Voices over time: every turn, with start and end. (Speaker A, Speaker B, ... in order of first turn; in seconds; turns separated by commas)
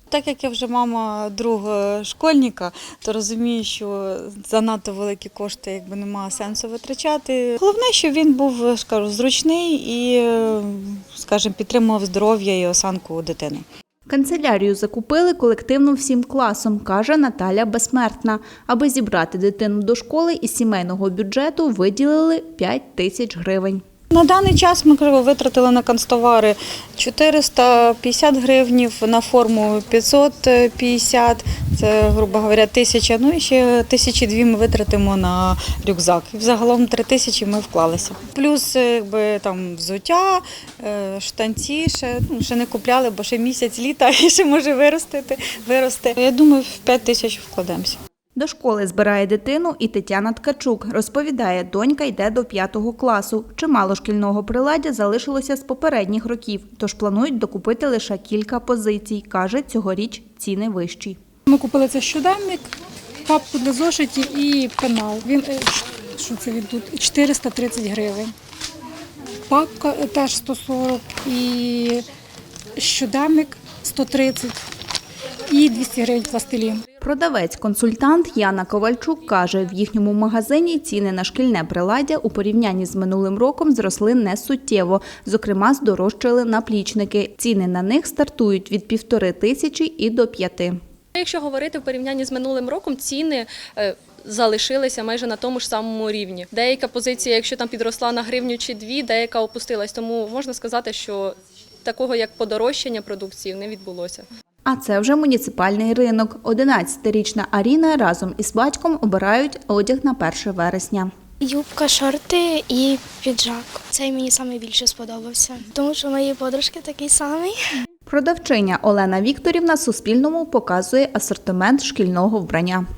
Speaker A: 0.1-13.7, Speaker B: 14.1-23.8, Speaker A: 24.1-48.0, Speaker B: 48.4-61.2, Speaker C: 61.5-62.7, Speaker C: 63.3-68.3, Speaker C: 69.5-72.1, Speaker C: 72.8-74.6, Speaker C: 75.5-76.8, Speaker B: 77.0-90.8, Speaker D: 91.2-104.3, Speaker B: 104.7-111.1, Speaker E: 111.4-117.6, Speaker B: 118.1-122.8